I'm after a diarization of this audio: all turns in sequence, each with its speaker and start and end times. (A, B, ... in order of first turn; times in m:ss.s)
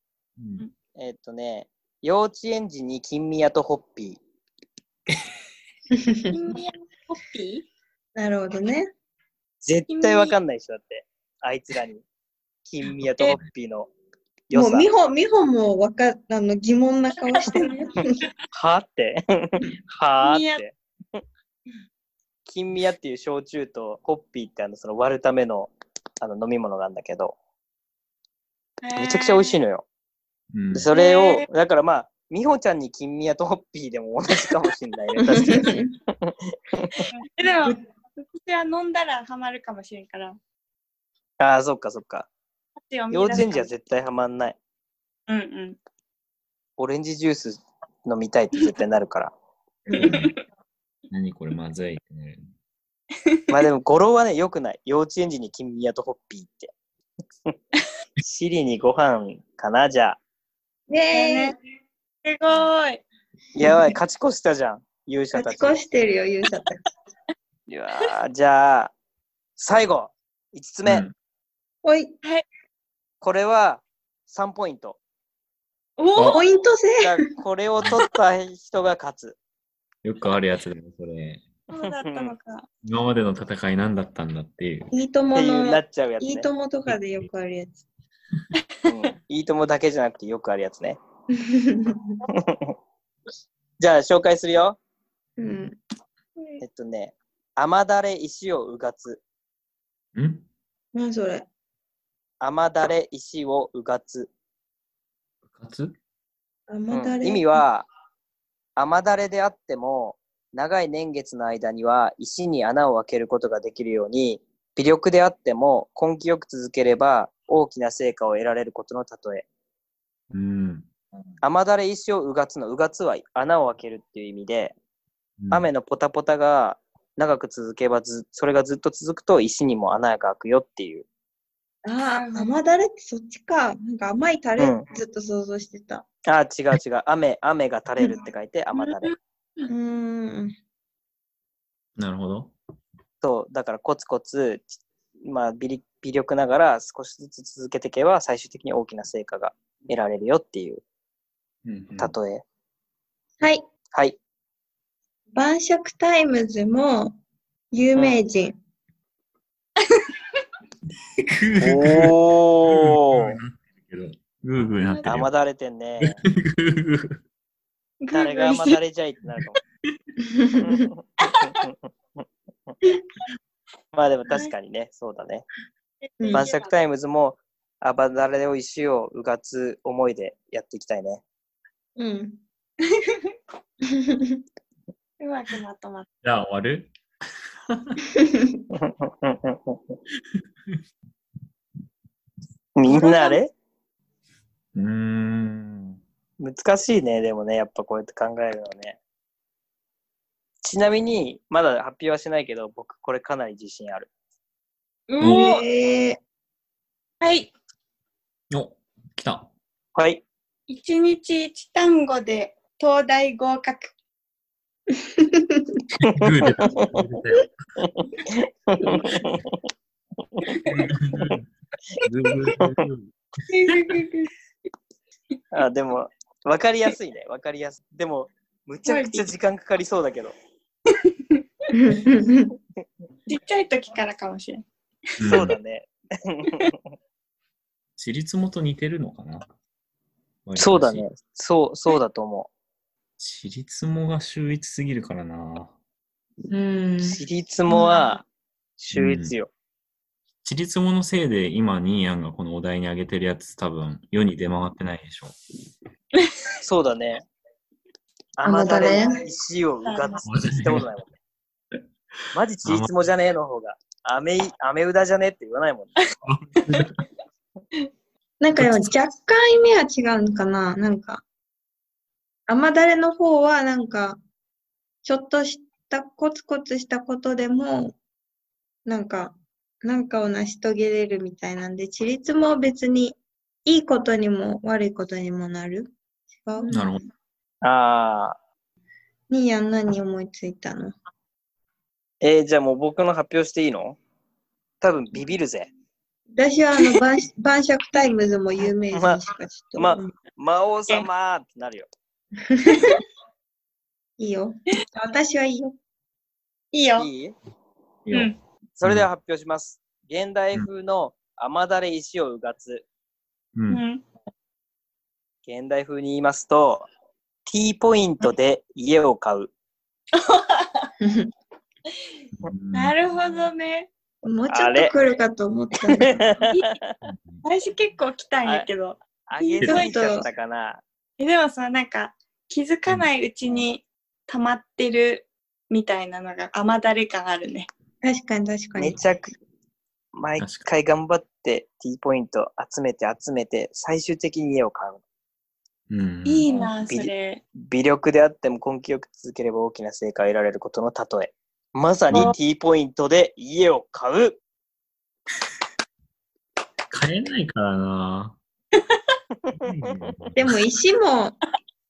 0:00.4-0:00.6 A
0:00.9-0:04.2 B
0:05.9-0:06.3 C
0:06.3-0:07.6 D
0:08.2-0:08.9 C
0:09.6-0:12.0 B
0:09.9-0:10.4 D
0:12.7-0:13.9 B
0:14.5-0:14.9 B
0:14.5-0:18.2 C
0:17.3-0:18.0 D
0:18.5-0:21.2 B
0:20.2-0:20.6 D
0:22.5-0:27.4 B
0:28.8-0:29.6 D
0:29.0-0:29.8 B
0:30.5-0:30.9 A
0:30.7-0:37.0 B
0:30.9-0:31.4 D
0:35.2-0:35.9 C
0:37.1-0:40.4 D
0:41.4-0:42.3 B
0:42.9-0:43.7 D
0:43.1-0:44.6 B
0:45.3-0:45.8 D
0:46.8-0:49.3 B
0:49.9-0:50.2 C
0:50.0-0:50.3 A
0:50.0-0:50.3 D
0:51.1-0:52.5 A
0:53.5-0:56.7 B
0:58.2-1:00.2 B
1:00.9-1:01.5 C
1:01.1-1:01.6 D
1:02.2-1:03.0 D
1:03.5-1:05.8 B
1:05.3-1:06.8 C
1:07.7-1:08.9 B
1:09.6-1:11.0 B
1:10.8-1:11.1 A
1:11.8-1:12.1 C
1:13.2-1:15.0 B
1:16.0-1:16.4 D
1:16.2-1:16.4 A
1:16.3-1:17.2 C
1:17.0-1:19.4 B
1:20.0-1:21.5 A
1:21.7-1:22.7 D
1:21.8-1:22.3 B
1:22.8-1:24.9 A
1:24.9-1:27.8 C
1:25.3-1:26.5 B
1:28.9-1:31.0 B
1:31.3-1:32.2 C
1:32.3-1:32.7 B
1:33.8-1:34.8 B
1:35.4-1:35.8 C
1:36.6-1:39.2 B
1:40.1-1:40.4 A
1:40.9-1:41.5 C
1:42.4-1:44.3 B
1:45.5-1:46.0 A
1:46.7-1:47.6 C
1:46.9-1:47.9 B
1:48.8-1:59.4 B
2:00.3-2:00.9 A
2:01.4-2:04.7 B
2:05.4-2:05.7 A
2:05.5-2:11.0 B
2:11.8-2:16.0 C
2:12.2-2:12.5 D
2:14.6-2:14.8 B
2:16.2-2:19.1 B
2:18.7-2:19.7 D
2:19.7-2:20.6 C
2:22.0-2:22.5 A
2:23.2-2:30.8 B
2:31.6-2:32.1 A
2:32.0-2:32.4 B
2:35.3-2:37.2 C
2:37.7-2:38.6 C
2:37.9-2:38.2 B
2:41.2-2:45.3 A
2:41.6-2:43.4 B
2:44.9-2:45.2 D
2:45.0-2:46.2 B
2:46.0-2:47.2 A
2:48.0-2:48.8 D
2:48.1-2:49.6 B
2:50.3-2:50.6 C
2:50.6-2:52.8 B
2:51.3-2:51.6 D
2:53.9-2:55.4 B
2:56.1-2:56.7 D
2:56.2-2:56.5 C
2:56.3-3:01.2 B
3:02.0-3:02.4 C
3:03.9-3:04.4 C
3:05.2-3:06.1 D
3:06.2-3:06.9 A
3:07.7-3:08.0 A
3:08.2-3:08.6 C
3:08.7-3:10.0 B
3:12.7-3:13.5 B
3:12.8-3:13.4 D
3:14.7-3:16.0 A
3:16.4-3:19.0 B
3:20.6-3:24.1 B
3:25.1-3:25.6 D
3:25.2-3:25.5 A
3:25.2-3:26.2 C
3:27.2-3:27.5 D
3:28.5-3:29.5 A
3:29.9-3:30.2 B
3:30.7-3:33.9 D
3:35.0-3:35.8 C
3:36.0-3:37.5 A
3:36.1-3:37.0 B
3:37.8-3:39.6 B
3:40.7-3:41.5 A
3:42.0-3:43.2 A
3:42.6-3:42.8 B
3:43.5-3:44.3 D
3:45.5-3:50.3 B
3:48.8-3:49.3 D
3:50.9-3:51.4 D
3:51.7-3:52.5 C
3:53.3-3:54.6 D
3:55.2-3:55.5 A
3:55.2-3:56.8 B
3:55.2-3:55.5 D
3:58.0-3:59.4 A
4:00.4-4:01.0 A
4:00.6-4:02.5 B
4:03.2-4:05.7 A
4:06.5-4:07.9 C
4:07.0-4:08.2 B
4:08.8-4:09.5 B
4:08.9-4:09.3 A
4:10.4-4:15.3 A
4:16.6-4:17.2 B
4:18.4-4:21.1 B
4:18.4-4:19.2 C
4:19.8-4:20.2 D
4:20.2-4:20.9 A
4:22.3-4:26.2 B
4:22.6-4:22.9 A
4:26.2-4:27.0 A
4:28.4-4:31.2 C
4:28.5-4:28.9 A
4:32.5-4:34.2 C
4:35.0-4:38.0 C
4:38.8-4:46.8 C
4:46.6-4:46.9 D
4:46.7-4:47.0 A
4:47.6-4:48.4 B
4:49.3-4:51.0 C
4:52.2-4:54.0 B
4:54.8-4:55.7 B
4:56.3-5:00.1 C
4:58.9-4:59.2 B
4:59.8-5:01.9 B
5:02.5-5:03.0 C
5:04.2-5:05.7 C
5:06.7-5:07.1 D
5:07.0-5:07.3 B
5:08.0-5:08.3 A
5:08.1-5:08.4 D
5:08.8-5:12.8 B
5:08.8-5:09.1 A
5:13.6-5:13.8 A
5:13.7-5:14.0 D
5:15.4-5:16.9 B
5:17.5-5:19.5 B
5:20.1-5:20.9 D
5:21.0-5:21.3 C
5:22.4-5:23.0 A
5:22.7-5:23.9 D
5:24.2-5:26.3 C
5:24.5-5:24.9 B
5:25.9-5:26.9 B
5:27.0-5:27.4 A
5:27.4-5:29.9 D
5:29.3-5:30.8 B
5:29.6-5:30.3 C
5:31.2-5:37.7 D
5:38.0-5:39.0 C
5:38.8-5:39.3 B
5:40.1-5:45.0 B
5:40.4-5:40.6 A
5:45.9-5:46.5 A
5:46.2-5:47.4 D
5:46.5-5:54.4 B
5:52.1-5:52.3 A
5:56.9-5:58.4 A
5:59.5-5:59.9 B
5:59.6-6:00.6 A
6:00.4-6:01.4 C